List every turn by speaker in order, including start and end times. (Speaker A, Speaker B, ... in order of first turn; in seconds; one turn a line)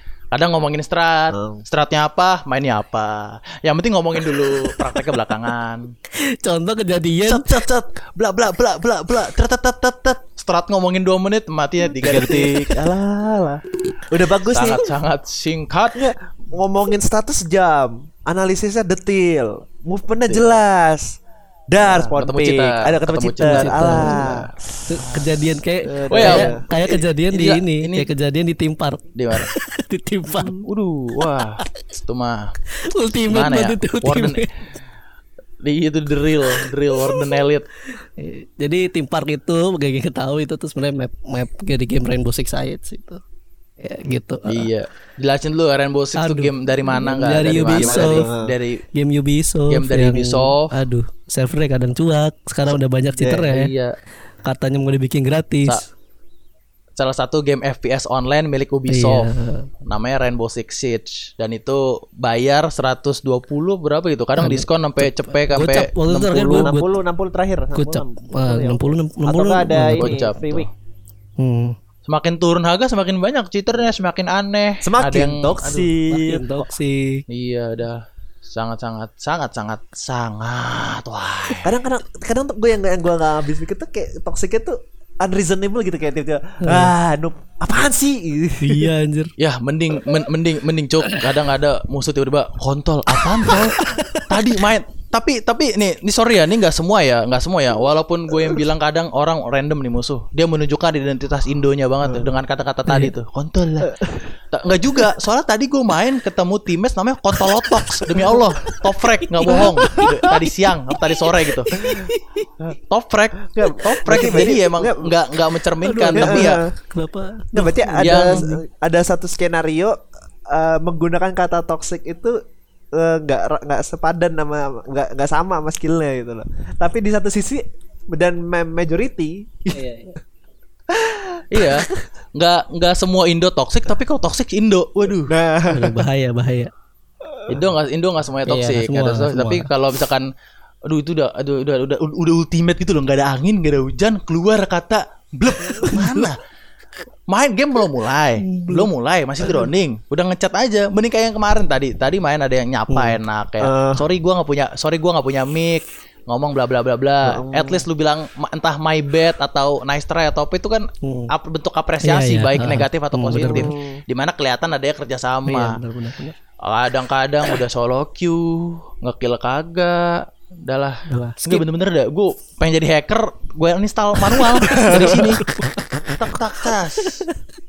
Speaker A: 0.3-5.9
Speaker B: 1.3-1.6
Speaker C: 6.1-7.6
Speaker A: 7.2-12.7
Speaker B: 12.0-14.9
Speaker A: 14.5-16.0
Speaker B: 15.9-21.2
Speaker B: 21.7-25.0
Speaker A: 21.8-24.5
Speaker C: 23.4-24.2
Speaker C: 24.9-30.6
Speaker B: 25.8-26.6
Speaker A: 26.1-28.1
Speaker A: 29.2-29.5
Speaker A: 30.6-32.5
Speaker C: 32.8-34.5
Speaker A: 33.3-34.4
Speaker A: 35.6-37.6
Speaker C: 37.9-43.2
Speaker C: 43.8-44.7
Speaker A: 44.5-48.8
Speaker C: 46.2-48.2
Speaker B: 47.6-48.5
Speaker C: 48.9-53.7
Speaker A: 49.7-50.7
Speaker B: 53.2-53.5
Speaker A: 53.5-54.0
Speaker C: 54.4-55.8
Speaker A: 57.0-59.3
Speaker C: 58.9-59.7
Speaker A: 59.9-66.7
Speaker C: 64.4-66.9
Speaker B: 66.1-70.7
Speaker C: 67.8-70.2
Speaker A: 69.9-70.7
Speaker C: 71.4-71.8
Speaker A: 72.1-75.9
Speaker B: 74.8-76.7
Speaker C: 76.1-77.2
Speaker A: 77.3-81.7
Speaker B: 81.6-88.9
Speaker C: 86.6-87.0
Speaker C: 88.6-89.3
Speaker A: 89.4-104.0
Speaker C: 91.0-91.3
Speaker C: 93.2-94.5
Speaker C: 102.9-103.1
Speaker B: 103.9-104.3
Speaker A: 104.5-111.8
Speaker C: 109.4-110.1
Speaker B: 109.5-110.3
Speaker C: 111.7-112.5
Speaker B: 111.7-112.1
Speaker A: 112.9-116.6
Speaker B: 113.5-115.2
Speaker C: 115.8-118.6
Speaker B: 116.2-116.7
Speaker B: 117.5-122.4
Speaker A: 118.0-118.4
Speaker B: 123.0-130.0
Speaker C: 129.7-130.1
Speaker B: 130.9-132.0
Speaker A: 131.5-135.3
Speaker B: 135.3-136.1
Speaker C: 135.7-136.7
Speaker B: 137.3-137.6
Speaker A: 137.5-140.3
Speaker C: 138.5-139.7
Speaker A: 140.9-146.4
Speaker C: 145.8-146.3
Speaker A: 147.3-165.8
Speaker C: 148.4-148.9
Speaker C: 152.9-153.2
Speaker B: 153.6-154.0
Speaker B: 157.2-157.8
Speaker C: 161.0-161.3
Speaker C: 162.0-163.7
Speaker B: 163.3-164.0
Speaker C: 165.5-166.4
Speaker A: 166.6-175.4
Speaker C: 171.1-171.7
Speaker C: 174.4-176.4
Speaker B: 174.7-175.2
Speaker A: 176.1-177.2
Speaker C: 177.0-177.4